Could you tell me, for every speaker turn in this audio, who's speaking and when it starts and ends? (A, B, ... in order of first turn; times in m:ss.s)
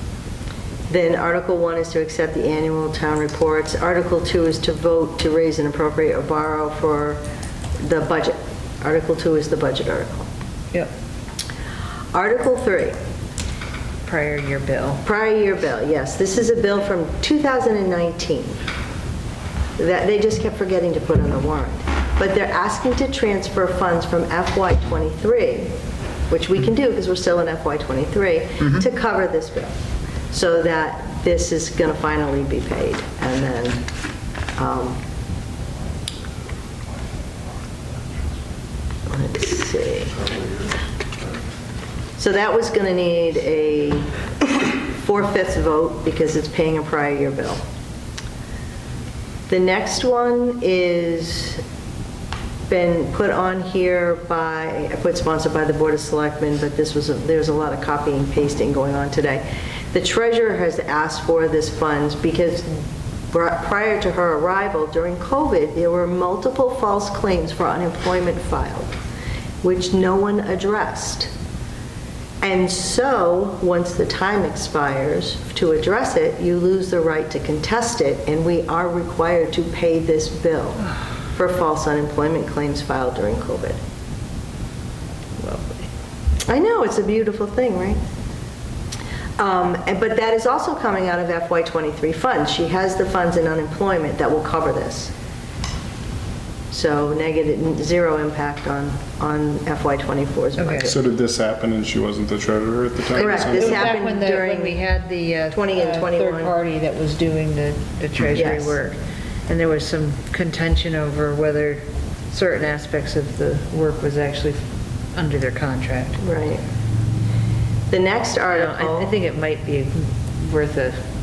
0:00.9-0:07.2 A
0:07.8-0:10.3 A
0:12.1-0:13.0 A
0:14.1-0:15.0 B
0:15.0-0:18.6 A
0:19.8-0:25.7 A
0:26.3-0:29.8 A
0:30.3-0:33.9 A
0:34.6-0:35.0 A
0:39.1-0:40.2 A
0:42.2-0:47.6 A
0:49.5-0:51.6 A
0:52.7-1:02.7 A
1:03.3-1:08.9 A
1:09.6-1:11.3 A
1:12.4-1:23.8 A
1:26.4-1:28.0 A
1:29.4-1:35.1 A
1:36.7-1:41.0 A
1:40.6-1:40.9 B
1:40.8-1:44.0 C
1:43.1-1:44.8 A
1:43.2-1:54.6 B
1:45.5-1:46.6 A
1:48.3-1:48.8 A
1:55.1-1:56.2 B
1:56.2-1:56.6 A
1:57.9-1:59.2 A
1:58.5-2:01.0 B